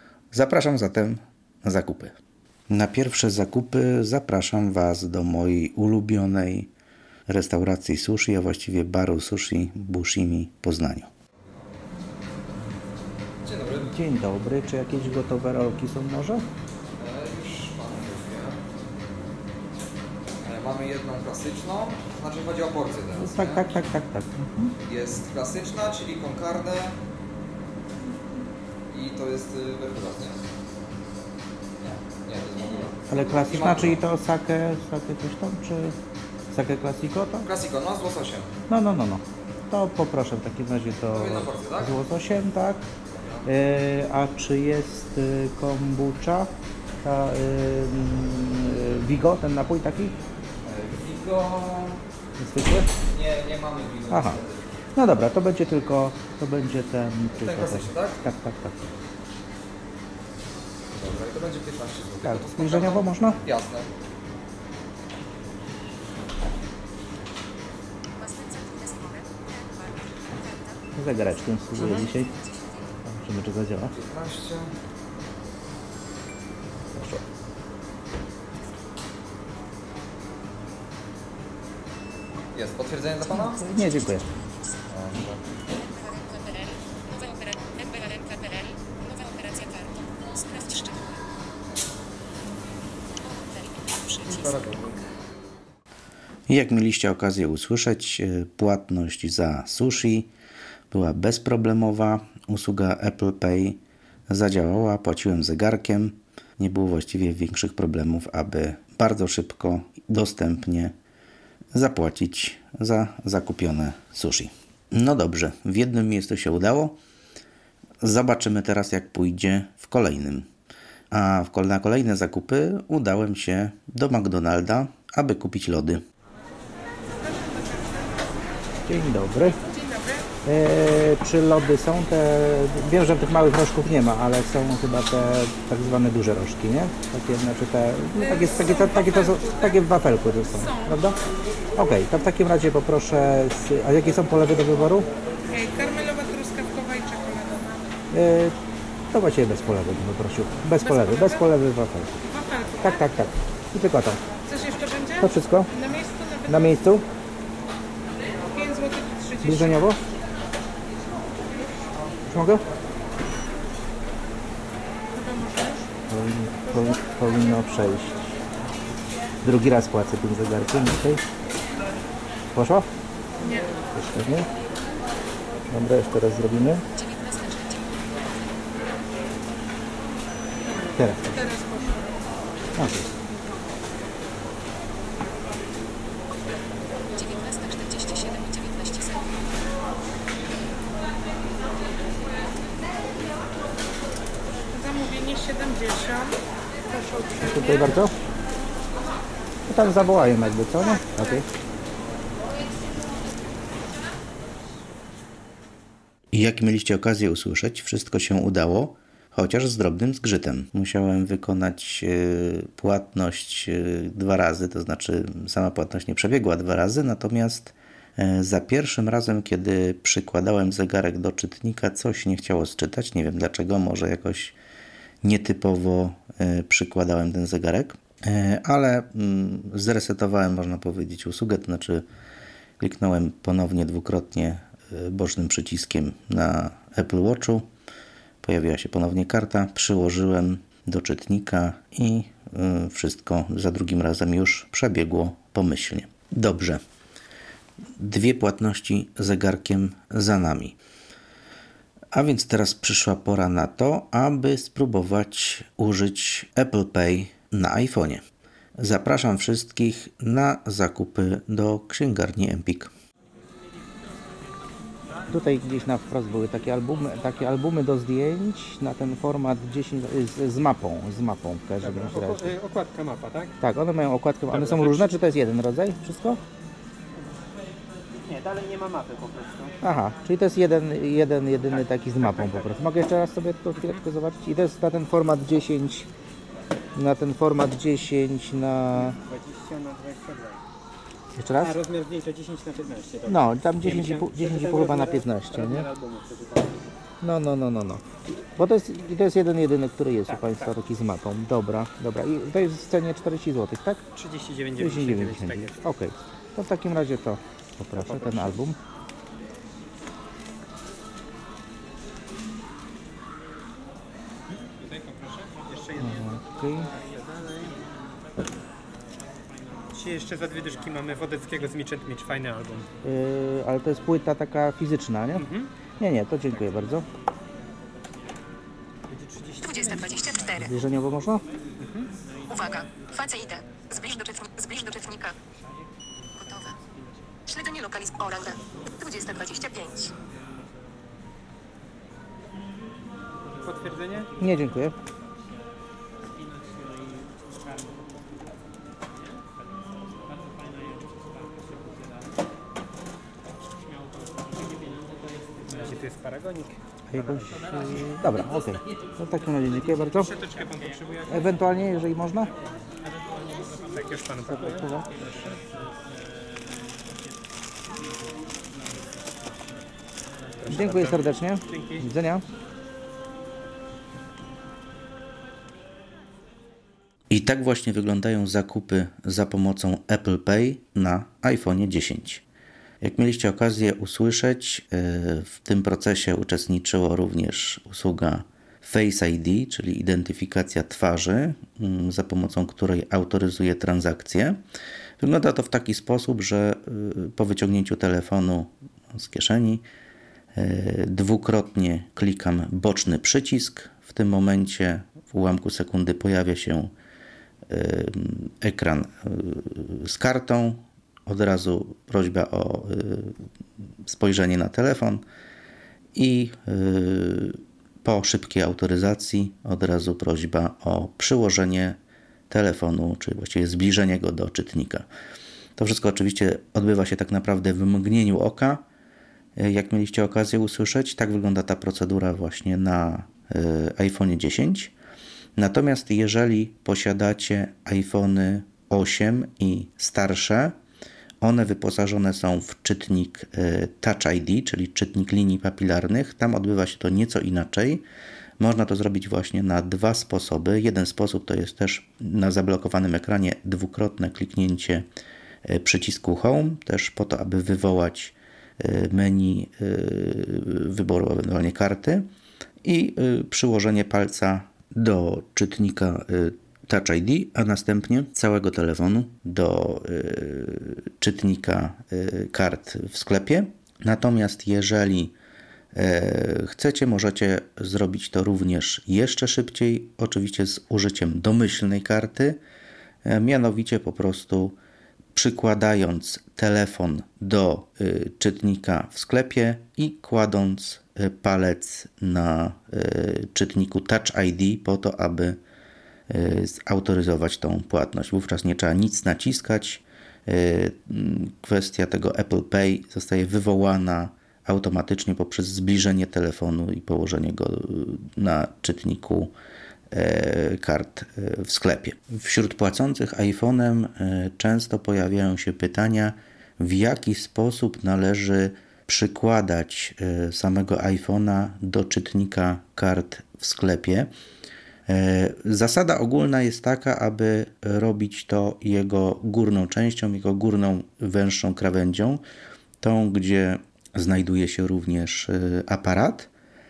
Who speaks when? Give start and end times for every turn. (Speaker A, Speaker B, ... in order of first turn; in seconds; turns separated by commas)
Speaker A: 0.3-2.1, Speaker A: 2.7-6.7, Speaker A: 7.3-11.1, Speaker B: 13.4-14.0, Speaker A: 13.9-16.4, Speaker B: 16.9-18.8, Speaker B: 20.4-23.8, Speaker A: 23.2-24.7, Speaker B: 24.8-27.0, Speaker B: 28.9-30.4, Speaker B: 31.8-34.0, Speaker A: 33.1-35.9, Speaker A: 36.5-37.5, Speaker B: 37.4-38.5, Speaker A: 38.7-42.9, Speaker B: 41.1-42.0, Speaker B: 43.1-43.5, Speaker A: 43.5-46.5, Speaker A: 47.0-50.1, Speaker B: 50.6-52.0, Speaker A: 52.4-52.9, Speaker B: 53.1-54.8, Speaker A: 54.1-54.4, Speaker A: 55.0-58.7, Speaker B: 57.3-58.2, Speaker B: 60.9-63.9, Speaker A: 62.2-63.4, Speaker C: 68.2-72.9, Speaker A: 71.0-72.3, Speaker B: 71.8-72.0, Speaker A: 73.0-73.9, Speaker B: 73.9-74.7, Speaker A: 76.9-77.2, Speaker B: 82.5-83.6, Speaker A: 83.4-84.3, Speaker C: 83.7-84.8, Speaker B: 84.9-85.6, Speaker C: 85.8-91.2, Speaker C: 93.2-94.5, Speaker B: 94.2-95.1, Speaker A: 96.5-100.3, Speaker A: 100.9-110.9, Speaker A: 111.7-117.0, Speaker A: 118.0-120.5, Speaker A: 121.1-126.0, Speaker D: 127.2-128.3, Speaker A: 128.9-129.6, Speaker D: 129.4-130.3, Speaker A: 130.4-141.2, Speaker D: 138.1-139.9, Speaker D: 140.4-141.1, Speaker A: 141.8-145.1, Speaker D: 145.5-147.9, Speaker A: 148.1-148.5, Speaker A: 149.1-152.1, Speaker D: 150.8-151.5, Speaker D: 152.2-153.3, Speaker A: 152.8-154.2, Speaker D: 154.4-156.8, Speaker A: 155.2-155.7, Speaker A: 156.5-157.0, Speaker D: 158.4-159.9, Speaker A: 159.4-160.0, Speaker A: 162.3-162.6, Speaker D: 165.1-166.0, Speaker A: 166.1-168.1, Speaker A: 169.4-171.2, Speaker A: 172.5-172.8, Speaker D: 173.4-173.9, Speaker A: 173.9-174.4, Speaker A: 175.7-176.8, Speaker C: 176.9-178.1, Speaker D: 180.7-182.1, Speaker A: 182.8-183.1, Speaker C: 187.2-189.4, Speaker D: 194.7-198.1, Speaker A: 197.7-198.1, Speaker A: 199.7-201.4, Speaker A: 206.3-224.5, Speaker A: 225.2-232.0, Speaker A: 232.8-237.7, Speaker A: 238.4-246.8, Speaker A: 248.0-250.8, Speaker A: 252.1-258.2, Speaker A: 258.8-262.9, Speaker A: 265.3-272.5, Speaker E: 271.8-273.6, Speaker A: 273.6-276.4, Speaker E: 274.5-275.2, Speaker E: 278.1-279.9, Speaker A: 279.8-286.1, Speaker E: 281.7-282.7, Speaker A: 286.9-289.1, Speaker E: 288.9-290.6, Speaker A: 291.4-291.7, Speaker E: 291.6-296.9, Speaker A: 293.2-295.9, Speaker A: 297.2-298.0, Speaker A: 298.6-304.0, Speaker E: 300.2-300.7, Speaker E: 304.1-305.8, Speaker A: 304.8-308.8, Speaker E: 307.9-308.6, Speaker E: 314.5-317.9, Speaker A: 316.0-316.9, Speaker E: 319.9-322.9, Speaker A: 323.0-325.4, Speaker E: 325.3-325.7, Speaker A: 326.0-327.1, Speaker E: 329.1-330.0, Speaker C: 329.6-330.8, Speaker A: 330.6-331.4, Speaker E: 331.8-332.1, Speaker C: 332.5-335.4, Speaker C: 336.4-336.8, Speaker C: 337.4-340.1, Speaker E: 343.6-344.4, Speaker A: 344.4-344.9, Speaker E: 355.7-357.6, Speaker A: 357.1-360.3, Speaker E: 360.1-361.6, Speaker A: 361.3-362.5, Speaker E: 363.7-365.6, Speaker A: 364.7-365.0, Speaker E: 370.6-372.1, Speaker A: 370.7-372.4, Speaker A: 377.3-382.4, Speaker A: 383.0-394.6, Speaker A: 395.2-399.8, Speaker A: 400.5-406.9, Speaker A: 407.7-413.4, Speaker A: 414.0-415.2, Speaker A: 416.1-422.0, Speaker A: 422.5-425.0, Speaker A: 425.8-428.8, Speaker A: 429.6-434.9, Speaker A: 435.6-440.7, Speaker A: 441.4-448.0, Speaker A: 448.6-455.1, Speaker A: 455.6-462.3, Speaker A: 462.8-475.3, Speaker A: 475.9-482.6, Speaker A: 483.2-484.8, Speaker A: 485.3-495.6, Speaker A: 496.3-509.5, Speaker A: 510.1-524.3, Speaker A: 525.1-532.4, Speaker A: 533.0-536.5